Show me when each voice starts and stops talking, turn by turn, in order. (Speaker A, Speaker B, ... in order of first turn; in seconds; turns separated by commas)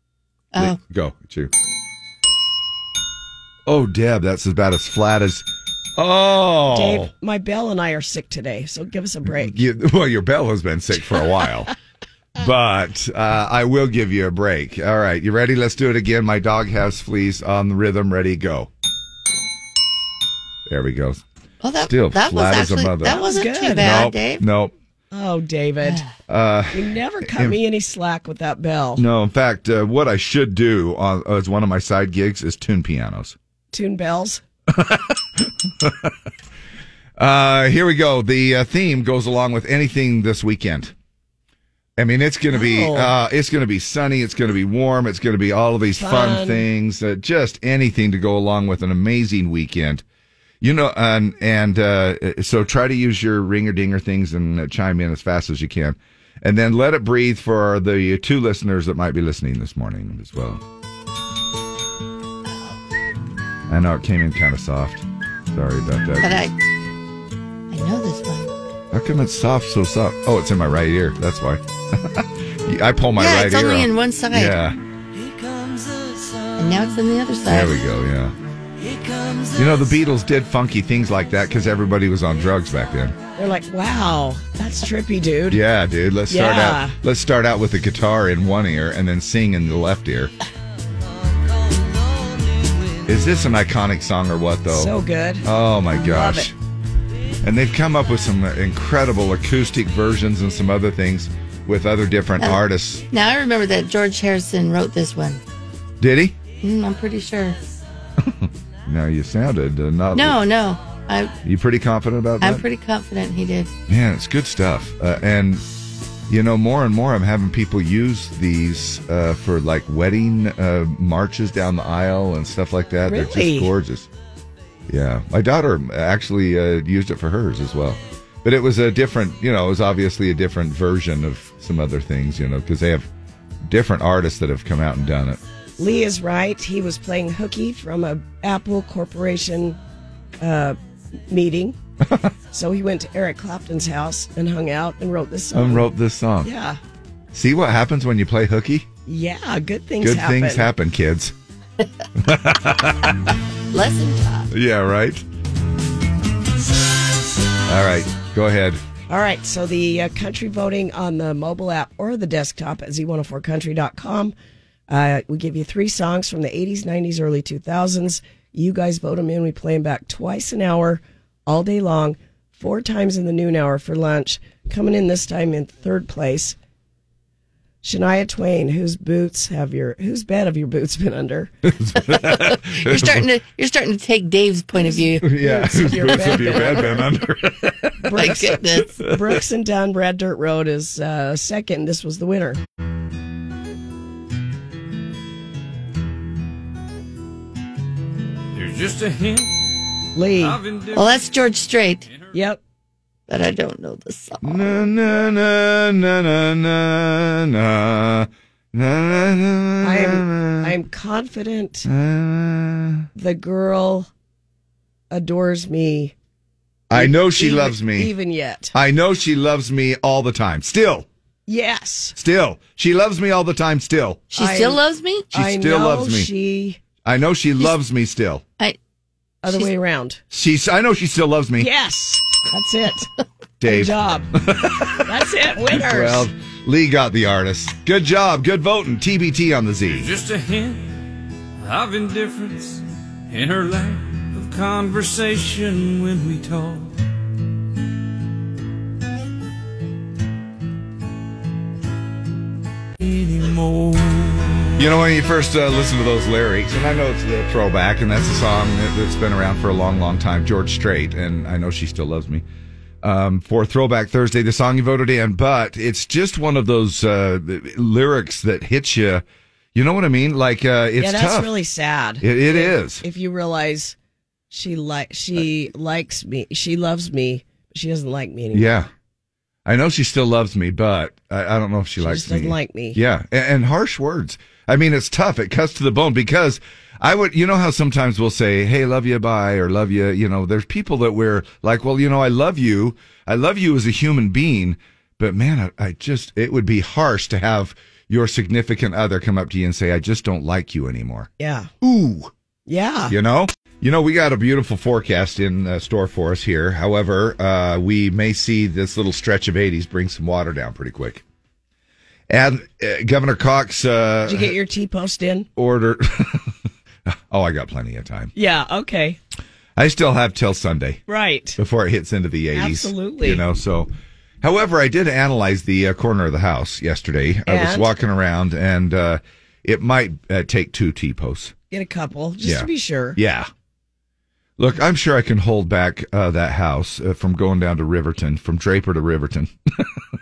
Speaker A: 0.6-1.5, Speaker A: 3.7-5.5, Speaker A: 6.0-7.1, Speaker B: 6.7-9.6, Speaker A: 9.3-11.7, Speaker A: 12.4-18.7, Speaker A: 20.7-21.2, Speaker C: 21.6-24.4, Speaker A: 21.9-24.7, Speaker B: 23.1-24.0, Speaker B: 25.1-26.0, Speaker A: 26.3-27.6, Speaker B: 26.7-29.0, Speaker A: 29.0-33.4, Speaker B: 33.7-34.4, Speaker A: 34.7-36.1, Speaker A: 37.2-40.9, Speaker A: 42.0-50.0, Speaker B: 42.5-43.1, Speaker B: 46.0-46.6, Speaker A: 50.6-60.6, Speaker C: 62.5-62.8, Speaker A: 63.7-66.5, Speaker C: 66.2-66.5, Speaker C: 67.7-68.5, Speaker A: 68.9-74.8, Speaker C: 73.2-74.6, Speaker C: 76.6-77.8, Speaker A: 77.5-78.3, Speaker A: 79.5-83.2, Speaker B: 83.4-85.6, Speaker A: 85.5-90.3, Speaker B: 86.3-87.0, Speaker A: 93.1-94.9, Speaker B: 94.7-96.5, Speaker A: 95.4-96.5, Speaker A: 97.4-103.0, Speaker C: 102.4-105.4, Speaker A: 106.0-106.4, Speaker C: 106.6-107.6, Speaker A: 108.2-110.4, Speaker C: 110.1-111.3, Speaker A: 111.4-112.6, Speaker C: 112.4-113.7, Speaker A: 113.9-115.6, Speaker A: 116.3-124.1, Speaker B: 123.1-123.7, Speaker A: 124.9-133.1, Speaker A: 133.7-135.4, Speaker B: 135.8-139.8, Speaker B: 140.4-140.8, Speaker B: 141.3-141.8, Speaker B: 142.5-145.9, Speaker A: 145.5-146.5, Speaker B: 146.4-146.8, Speaker A: 147.3-148.9, Speaker B: 149.1-150.7, Speaker A: 150.0-151.3, Speaker A: 152.2-153.2, Speaker C: 153.7-154.5, Speaker A: 154.5-155.2, Speaker A: 157.7-158.8, Speaker B: 159.1-164.3, Speaker B: 164.9-176.6, Speaker B: 177.8-181.5, Speaker A: 181.6-183.3, Speaker C: 182.1-185.4, Speaker B: 184.8-187.1, Speaker A: 185.2-188.1, Speaker B: 188.0-192.6, Speaker C: 188.1-189.0, Speaker D: 198.5-199.8, Speaker B: 200.2-200.6, Speaker D: 200.3-201.3, Speaker C: 200.9-202.1, Speaker D: 202.1-202.3, Speaker B: 202.3-202.6, Speaker C: 203.3-204.8, Speaker A: 204.4-210.7, Speaker B: 209.8-211.9, Speaker A: 211.8-213.1, Speaker B: 213.2-214.1, Speaker B: 215.1-216.1, Speaker A: 216.9-218.1, Speaker B: 216.9-218.7, Speaker A: 218.7-221.1, Speaker B: 221.5-222.2, Speaker A: 222.2-224.3, Speaker C: 224.3-225.3, Speaker B: 224.3-224.8, Speaker A: 225.3-226.3, Speaker B: 225.3-226.8, Speaker A: 227.0-228.4, Speaker B: 229.4-230.2, Speaker A: 230.3-231.7, Speaker B: 231.6-233.1, Speaker A: 233.6-235.0, Speaker B: 233.6-234.3, Speaker B: 235.1-236.3, Speaker A: 235.7-240.1, Speaker D: 239.9-240.9, Speaker D: 241.6-246.9, Speaker D: 253.0-254.8, Speaker A: 254.8-262.4, Speaker A: 263.0-269.2, Speaker A: 269.8-271.5, Speaker B: 271.0-273.9, Speaker A: 272.2-273.0, Speaker B: 274.5-278.7, Speaker A: 278.5-278.9, Speaker A: 279.7-301.3, Speaker B: 282.0-283.0, Speaker B: 301.4-301.7, Speaker A: 301.8-302.3, Speaker B: 302.7-303.1, Speaker A: 303.1-311.2, Speaker A: 312.3-314.5, Speaker B: 314.3-315.5, Speaker A: 315.6-316.5, Speaker A: 317.1-318.3, Speaker B: 318.4-319.2, Speaker A: 319.8-321.0, Speaker B: 321.1-321.6, Speaker A: 321.6-323.9, Speaker B: 322.5-323.4, Speaker A: 324.4-331.5, Speaker B: 327.5-327.9, Speaker B: 331.7-333.2, Speaker A: 332.4-333.5, Speaker A: 334.6-339.9